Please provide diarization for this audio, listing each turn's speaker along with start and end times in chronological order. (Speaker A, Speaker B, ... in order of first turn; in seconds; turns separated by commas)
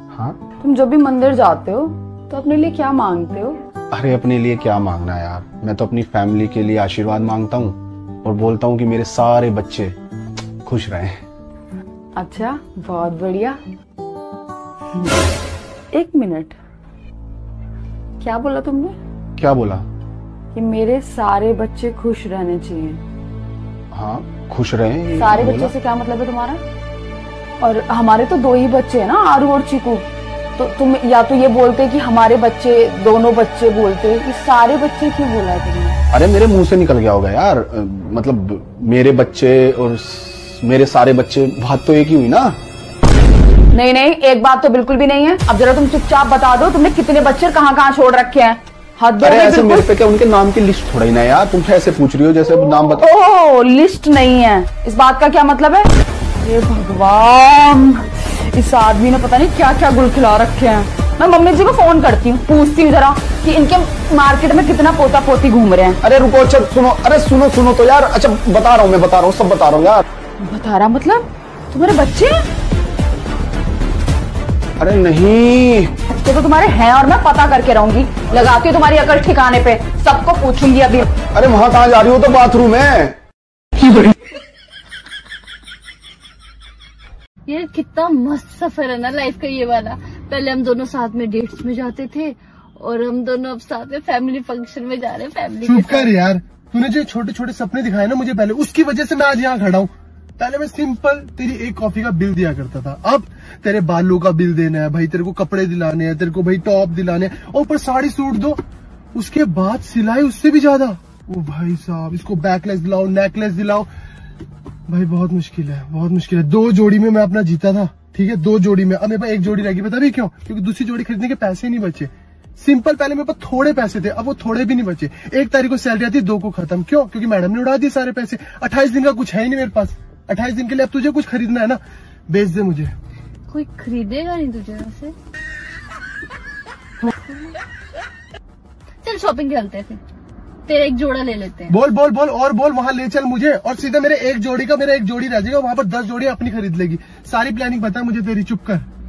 Speaker A: 0.1-0.4, Speaker B: 0.6-3.6, Speaker A: 3.9-9.9, Speaker A: 10.6-11.2, Speaker B: 12.2-13.6, Speaker B: 14.9-15.2, Speaker B: 15.9-16.6, Speaker B: 18.2-19.0, Speaker A: 19.4-19.9, Speaker B: 20.5-23.0, Speaker A: 23.9-25.7, Speaker B: 25.2-26.6, Speaker B: 27.6-36.0, Speaker A: 36.1-42.6, Speaker B: 43.7-49.9, Speaker A: 49.2-53.0, Speaker B: 52.9-55.9, Speaker B: 56.4-66.0, Speaker A: 66.0-70.0, Speaker B: 70.4-72.4, Speaker A: 74.8-75.9, Speaker B: 76.1-81.1, Speaker A: 81.2-83.2, Speaker C: 87.5-96.1, Speaker D: 95.6-108.6, Speaker D: 109.1-113.9, Speaker D: 114.9-132.9, Speaker C: 133.5-135.1, Speaker C: 139.0-140.0, Speaker C: 140.7-141.7, Speaker D: 141.7-148.9